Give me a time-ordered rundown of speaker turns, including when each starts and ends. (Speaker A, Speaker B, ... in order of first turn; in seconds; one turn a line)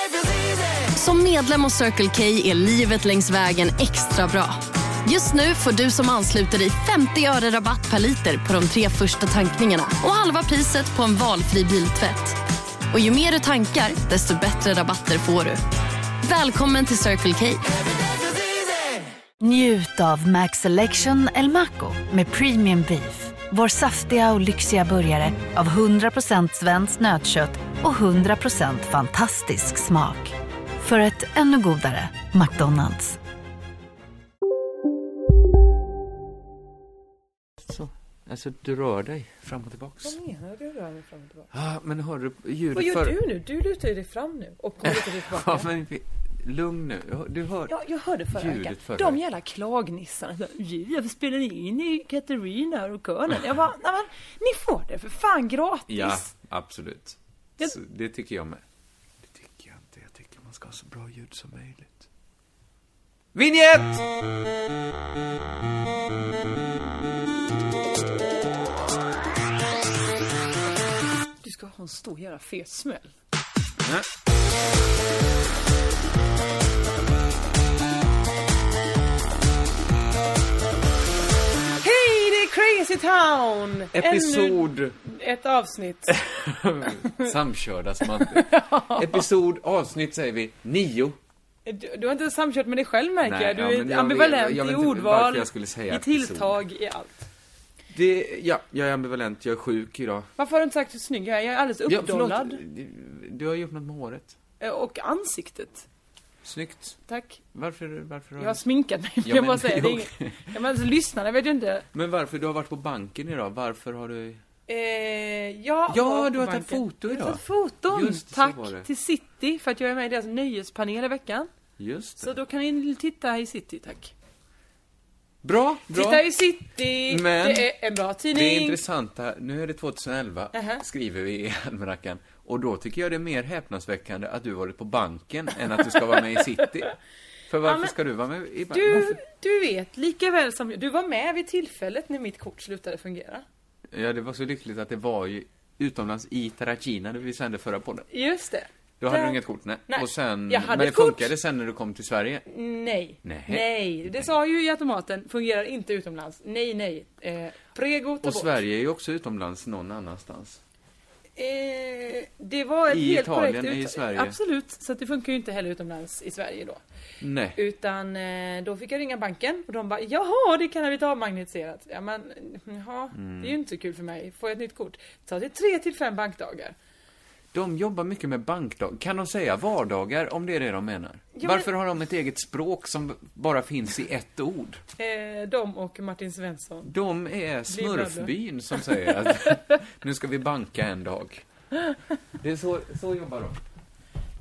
Speaker A: 0.9-12.4
Speaker A: 12.9-15.6
Speaker A: 16.2-17.8
Speaker B: 19.4-33.2
Speaker C: 37.6-40.2
Speaker D: 40.0-41.5
Speaker C: 41.5-43.2
Speaker D: 42.7-45.7
Speaker C: 44.8-47.8
Speaker D: 47.7-56.3
Speaker C: 48.3-49.2
Speaker C: 55.9-58.6
Speaker C: 59.2-62.1
Speaker C: 63.3-64.1
Speaker D: 71.4-73.1
Speaker D: 81.8-86.2
Speaker C: 83.9-85.0
Speaker C: 86.1-91.2
Speaker D: 88.2-89.3
Speaker D: 91.7-97.2
Speaker C: 93.2-96.6
Speaker C: 97.9-100.3
Speaker D: 100.4-102.6
Speaker C: 101.9-104.3
Speaker D: 104.6-105.8
Speaker C: 106.4-107.0
Speaker D: 107.1-107.4
Speaker C: 107.5-108.6
Speaker D: 108.4-111.9
Speaker C: 109.2-110.5
Speaker C: 111.9-114.4
Speaker D: 114.7-121.5
Speaker C: 115.9-118.9
Speaker C: 121.8-122.3
Speaker D: 122.2-124.1
Speaker C: 125.4-126.2
Speaker D: 125.9-128.8
Speaker C: 127.1-127.7
Speaker C: 128.3-136.9
Speaker D: 130.5-130.8
Speaker C: 137.5-139.2
Speaker D: 137.6-137.9
Speaker D: 138.7-143.4
Speaker C: 143.9-148.1
Speaker D: 148.1-151.3
Speaker C: 149.0-152.4
Speaker D: 152.5-158.6
Speaker C: 153.2-154.3
Speaker C: 158.2-160.6
Speaker D: 161.4-166.8
Speaker C: 162.9-164.4
Speaker C: 167.2-167.6
Speaker D: 167.6-176.7
Speaker C: 173.2-173.5
Speaker C: 177.5-184.8
Speaker D: 181.3-181.7
Speaker D: 185.0-186.9
Speaker C: 186.8-191.4
Speaker D: 187.7-188.9
Speaker C: 192.4-193.6